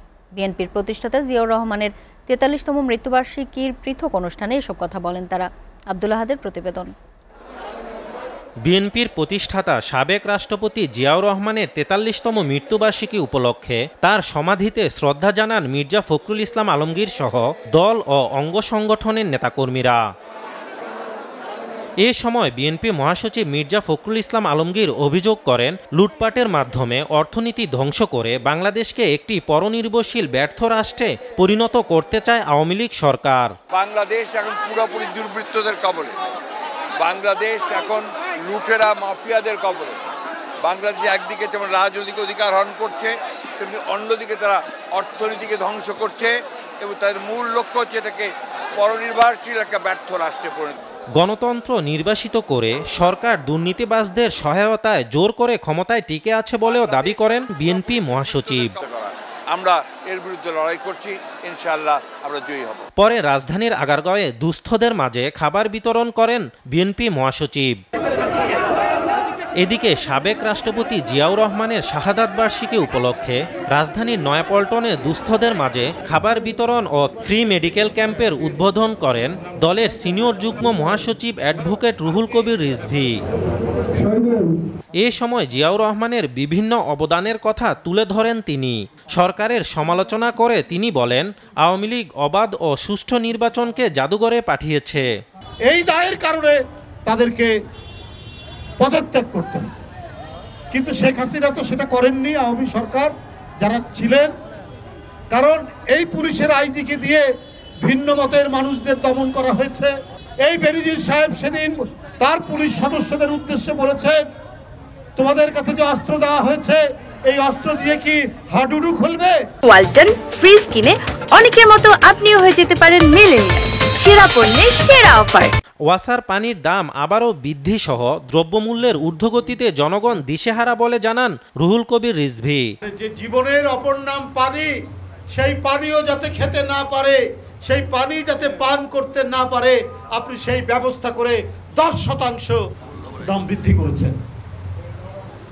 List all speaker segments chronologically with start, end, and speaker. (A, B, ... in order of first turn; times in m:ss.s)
0:00.4-0:06.9 A
0:08.6-0:20.0 B
0:22.0-0:33.5 B
0:33.7-0:36.2 C
0:37.0-0:40.0 C
0:40.6-0:50.8 C
0:51.2-0:58.7 B
0:56.6-1:02.8 C
1:03.0-1:07.8 B
1:09.6-1:23.1 B
1:25.0-1:35.1 B
1:35.7-1:37.5 D
1:38.8-1:39.6 D
1:40.7-1:44.3 D
1:45.3-1:47.3 D
1:47.8-1:49.9 D
1:50.5-1:54.3 D
1:55.2-1:59.4 D
1:59.6-2:05.5 E
2:05.9-2:12.7 B
2:12.8-2:14.7 D
2:15.3-2:22.6 D
2:23.2-2:24.2 D